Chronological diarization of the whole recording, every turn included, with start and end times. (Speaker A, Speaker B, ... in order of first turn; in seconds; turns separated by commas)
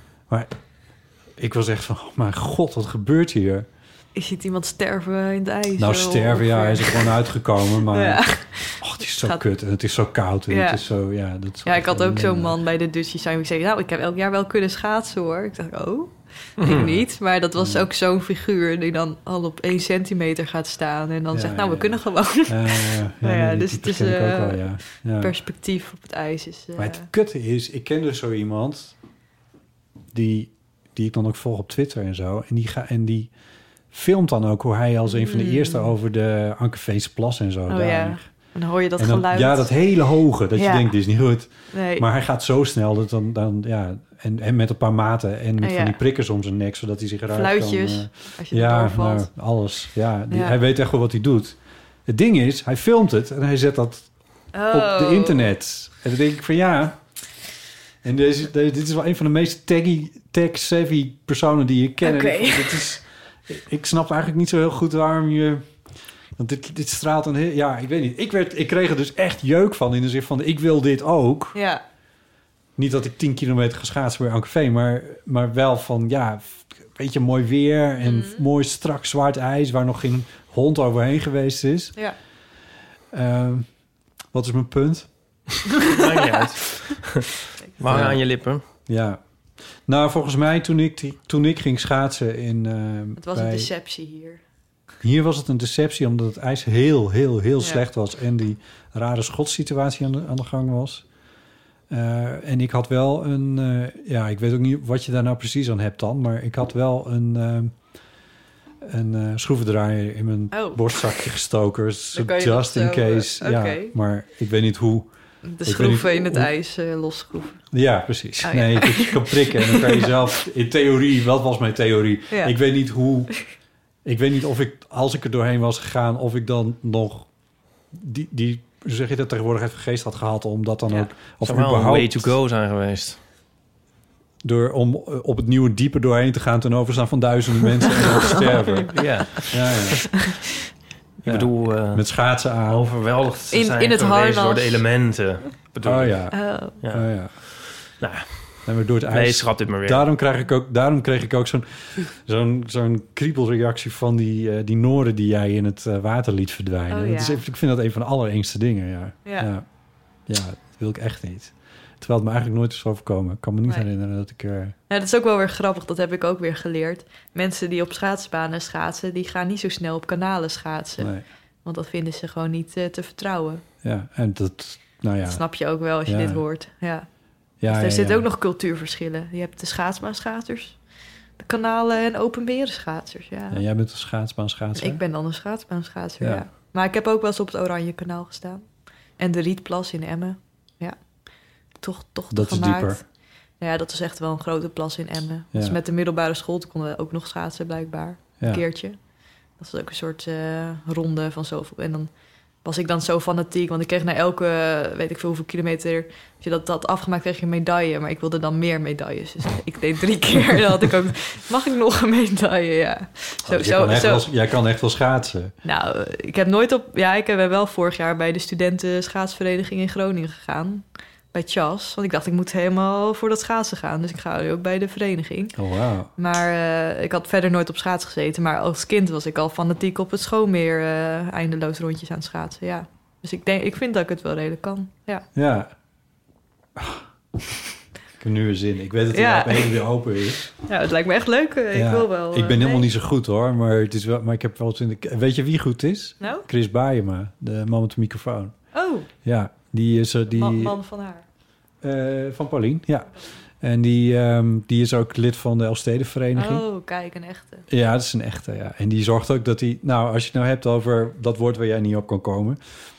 Speaker A: 1.4-3.7, Speaker B: 4.1-7.1, Speaker A: 5.8-12.6, Speaker B: 7.9-9.4, Speaker B: 10.5-10.8, Speaker B: 11.6-27.1, Speaker C: 16.6-16.9, Speaker A: 17.6-17.9, Speaker A: 21.3-25.3, Speaker A: 26.8-28.9, Speaker A: 30.1-33.3, Speaker A: 33.9-38.3, Speaker B: 35.1-35.9, Speaker B: 37.7-39.8, Speaker A: 39.0-54.1, Speaker B: 40.5-40.9, Speaker B: 41.7-42.0, Speaker B: 45.6-46.0, Speaker B: 47.3-49.3, Speaker B: 50.3-50.6, Speaker B: 54.5-55.5, Speaker A: 54.7-57.0, Speaker A: 58.0-65.7, Speaker B: 62.0-63.0, Speaker A: 66.4-71.6, Speaker B: 71.5-71.8, Speaker A: 72.8-82.0, Speaker B: 78.0-78.4, Speaker A: 83.1-83.7, Speaker A: 84.3-85.1, Speaker C: 85.8-88.6, Speaker A: 87.9-88.2, Speaker A: 88.8-89.2, Speaker A: 89.8-93.7, Speaker B: 93.2-94.4, Speaker A: 95.0-101.0, Speaker A: 101.9-107.8, Speaker A: 108.8-115.1, Speaker B: 110.5-111.1, Speaker B: 112.1-113.9, Speaker B: 115.4-117.6, Speaker A: 115.6-116.5, Speaker A: 117.7-123.5, Speaker B: 118.4-120.1, Speaker B: 122.3-122.5, Speaker A: 124.0-127.3, Speaker A: 127.9-132.4, Speaker C: 131.4-133.2, Speaker A: 134.4-140.3, Speaker C: 138.9-139.9, Speaker C: 141.2-142.0, Speaker A: 141.2-142.9, Speaker C: 142.7-146.2, Speaker B: 143.5-144.8, Speaker A: 145.8-147.4, Speaker B: 146.3-146.8, Speaker C: 146.8-150.0, Speaker A: 148.7-159.6, Speaker B: 156.9-157.4, Speaker B: 159.2-159.5, Speaker A: 160.3-164.7, Speaker B: 164.9-171.1, Speaker A: 171.0-171.2, Speaker B: 171.6-173.6, Speaker A: 173.8-175.4, Speaker B: 175.2-177.1, Speaker A: 176.0-176.4, Speaker A: 177.6-178.2, Speaker B: 177.6-180.8, Speaker B: 181.4-183.6, Speaker A: 183.5-185.0, Speaker B: 184.8-188.7, Speaker A: 186.2-186.4, Speaker B: 189.2-190.9, Speaker B: 191.8-193.1, Speaker A: 192.3-193.0, Speaker B: 193.6-199.0, Speaker A: 195.5-195.8, Speaker B: 199.6-202.1, Speaker B: 202.6-214.3, Speaker A: 213.4-215.5, Speaker B: 215.6-225.6, Speaker A: 225.6-226.1, Speaker B: 226.2-235.2, Speaker A: 235.3-235.7, Speaker A: 236.8-237.0, Speaker A: 238.2-240.5, Speaker B: 239.1-239.8, Speaker B: 240.6-242.9, Speaker A: 241.7-248.6, Speaker B: 248.7-249.1, Speaker A: 249.2-250.8, Speaker B: 250.3-251.2, Speaker A: 251.8-256.6, Speaker B: 256.3-257.6, Speaker A: 257.7-262.6